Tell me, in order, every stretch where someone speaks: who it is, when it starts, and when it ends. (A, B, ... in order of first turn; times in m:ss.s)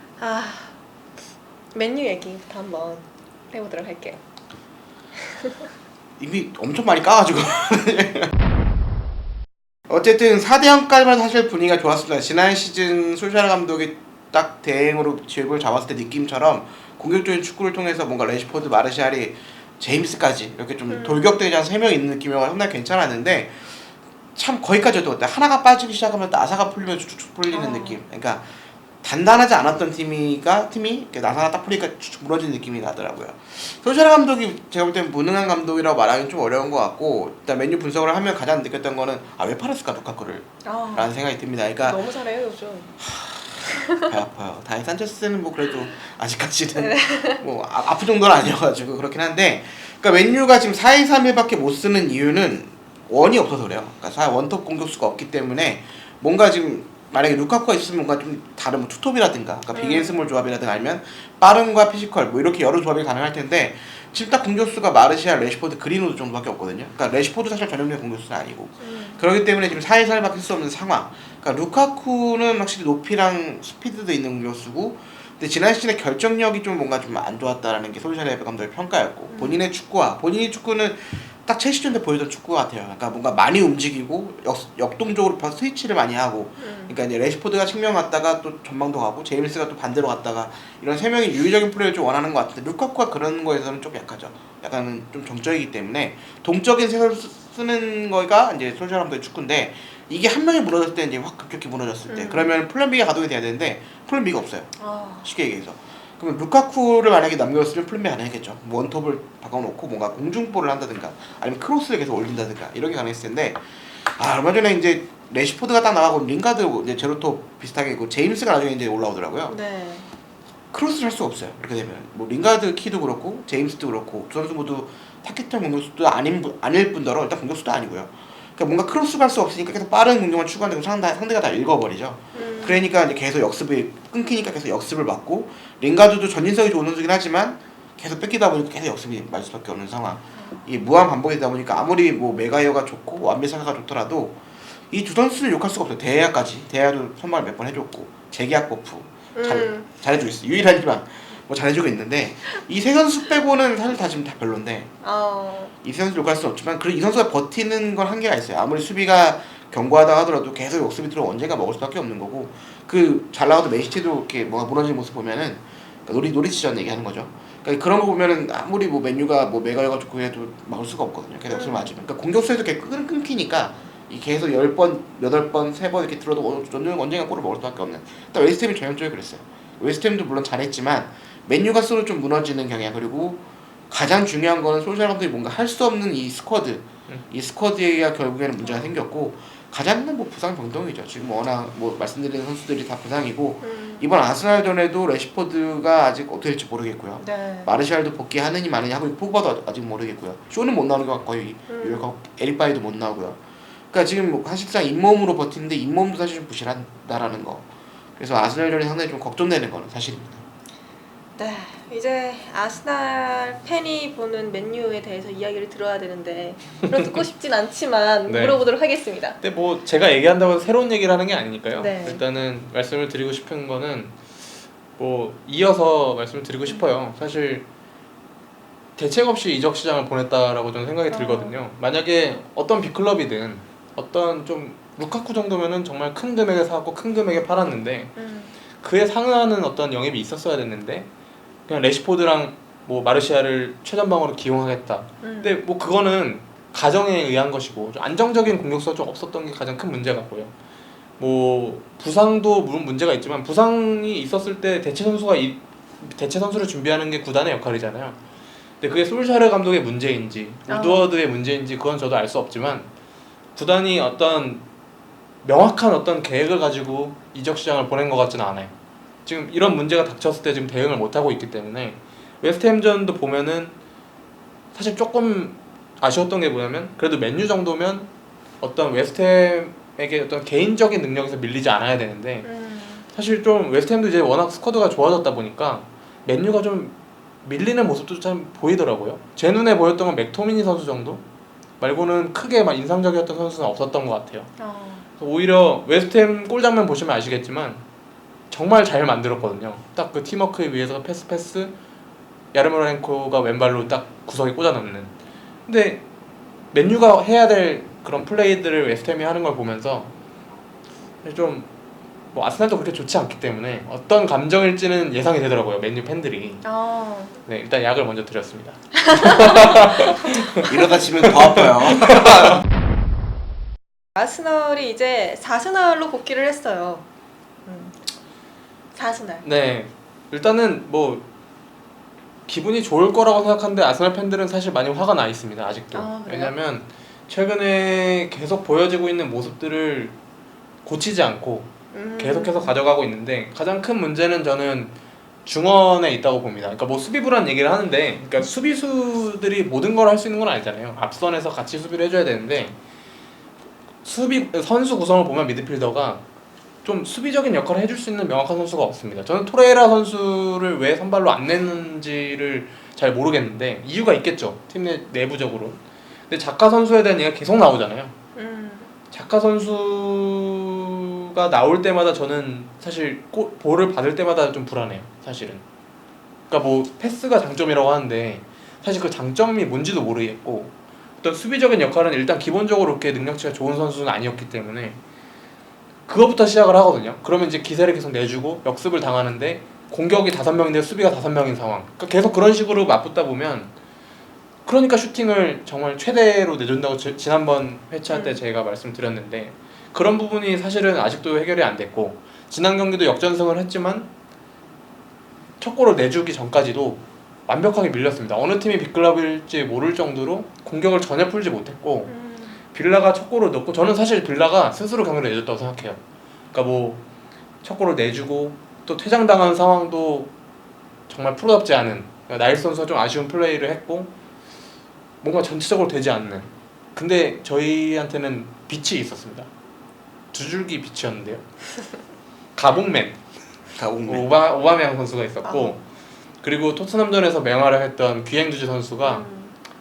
0:00.2-0:00.7 A
0:01.7-0:04.2 A
0:05.2-0:05.7 A
0:06.2-0:08.3 B
0:09.9-0:23.8 B
0:20.9-0:21.3 A
0:24.3-0:28.4 B
0:27.5-0:28.0 A
0:29.0-0:42.0 B
0:40.6-0:41.1 A
0:41.8-0:42.9 A
0:43.0-1:44.7 B
0:43.7-0:44.1 A
0:46.8-0:47.4 A
0:59.7-1:00.1 A
1:08.8-1:09.2 A
1:19.3-1:19.6 A
1:26.6-1:27.0 A
1:42.1-1:42.5 A
1:44.8-1:45.3 A
1:45.2-1:53.6 B
1:54.2-1:59.6 B
1:59.5-2:00.1 A
2:00.7-2:24.4 B
2:12.3-2:12.9 A
2:24.9-2:34.9 B
2:29.3-2:29.9 A
2:35.0-2:35.7 A
2:35.8-3:23.4 B
2:51.5-2:52.0 A
3:08.6-3:08.9 A
3:13.6-3:14.1 A
3:17.2-3:17.7 A
3:21.7-3:22.0 A
3:23.9-3:30.4 B
3:31.4-3:39.4 A
3:38.3-3:38.6 C
3:39.4-3:44.1 C
3:41.8-3:42.2 A
3:45.0-3:47.6 C
3:49.0-3:58.1 C
3:51.1-3:51.6 A
3:58.2-3:58.5 A
3:58.8-4:01.1 C
4:01.7-4:10.5 C
4:05.2-4:05.6 A
4:11.2-4:18.2 C
4:18.8-4:22.9 C
4:20.7-4:21.1 A
4:23.5-4:24.6 C
4:25.4-4:28.7 C
4:29.2-4:33.7 C
4:34.7-4:38.1 C
4:38.6-4:42.5 C
4:42.4-4:43.1 A
4:43.1-4:51.2 C
4:51.8-4:54.5 C
4:54.6-4:55.1 A
4:55.2-4:57.8 C
4:58.5-5:01.7 C
5:02.5-5:05.1 C
5:05.6-5:06.0 C
5:06.7-5:10.1 C
5:11.2-5:11.7 C
5:12.3-5:16.6 C
5:16.6-5:17.4 A
5:17.4-5:20.7 C
5:19.0-5:20.4 A
5:20.6-5:22.6 B
5:21.2-5:22.5 C
5:24.2-5:27.0 A
5:27.6-5:28.0 A
5:28.9-5:29.4 A
5:29.4-5:31.2 C
5:32.5-5:40.1 C
5:35.9-5:36.5 A
5:40.8-5:44.9 C
5:41.9-5:42.8 A
5:45.4-5:52.8 C
5:54.0-5:56.2 C
5:56.8-6:08.1 C
6:08.4-6:08.9 A
6:09.1-6:15.6 C
6:16.5-6:25.0 C
6:26.1-6:33.7 C
6:34.6-6:44.1 C
6:38.1-6:38.4 A
6:45.6-6:52.1 C
6:52.1-6:52.6 A
6:52.7-6:56.0 C
6:56.5-6:57.0 C
6:57.6-7:00.3 C
7:01.1-7:04.1 C
7:05.2-7:09.5 C
7:10.3-7:11.4 C
7:12.5-7:13.2 C
7:13.8-7:14.3 B
7:14.1-7:15.8 C
7:15.4-7:15.8 A
7:16.4-7:19.2 C
7:19.0-7:19.5 A